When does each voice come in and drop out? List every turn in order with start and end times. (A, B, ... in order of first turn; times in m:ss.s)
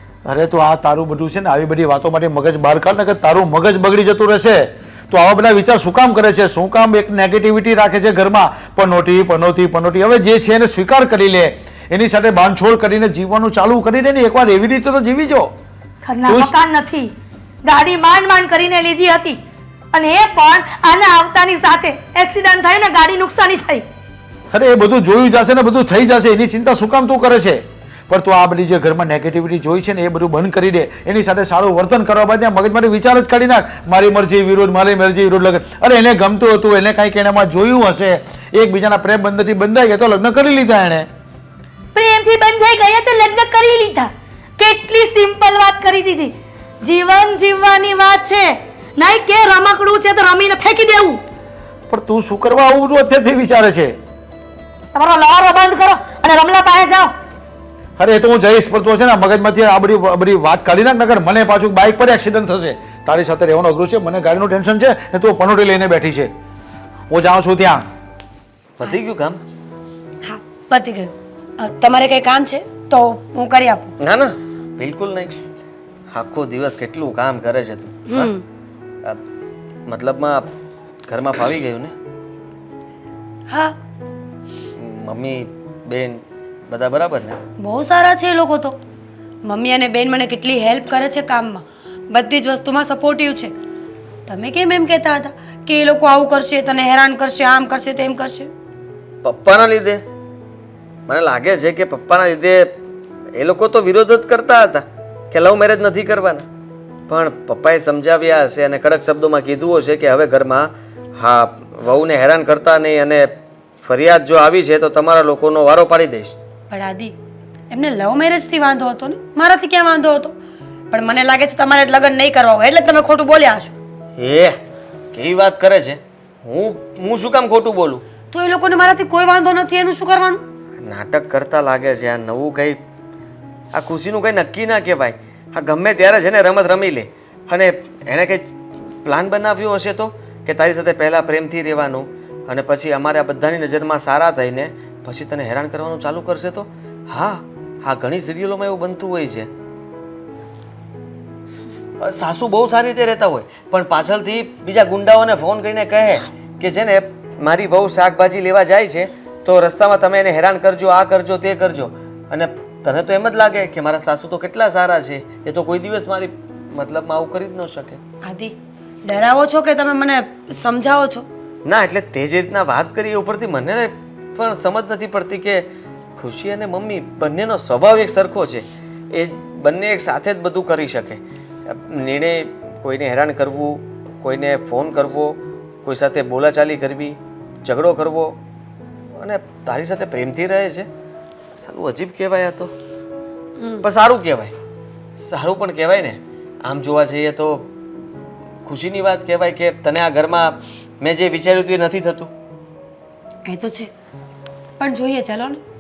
0:00.2-0:15.5 A
0:16.0-0:17.1 B
0:16.2-0:16.5 A
0:17.6-0:19.4 B
0:19.9-0:23.8 B
0:24.5-0:41.1 A
0:41.9-0:51.2 B
0:51.9-0:54.0 A
0:54.9-0:57.1 B
0:58.0-1:06.3 A
1:07.1-1:07.8 A
1:08.8-1:09.4 C
1:10.2-1:13.9 D
1:14.0-1:15.4 C
1:16.1-1:18.3 C
1:18.1-1:18.4 D
1:19.9-1:20.5 C
1:21.1-1:21.9 C
1:23.5-1:23.8 D
1:24.8-1:27.4 C
1:27.6-1:28.8 D
1:29.4-1:33.5 D
1:34.3-1:38.5 D
1:39.2-1:40.0 C
1:41.1-1:42.8 C
1:43.3-1:46.5 C
1:47.1-1:53.3 C
1:53.8-1:56.3 C
1:56.7-1:57.2 D
1:57.7-2:00.4 D
2:00.9-2:03.7 D
2:04.2-2:04.6 C
2:05.1-2:08.0 C
2:08.3-2:10.4 D
2:10.8-2:12.8 C
2:13.7-2:18.5 C
2:19.0-2:29.5 C
2:32.0-2:48.0 C
2:48.2-2:51.3 D
2:51.6-2:55.6 C
2:56.2-3:08.4 C
3:09.2-3:10.9 C
3:11.6-3:12.7 C
3:13.6-3:13.8 D
3:13.8-3:14.5 C
3:15.2-3:17.7 C
3:18.6-3:22.3 C
3:23.4-3:23.9 D
3:24.8-3:25.6 D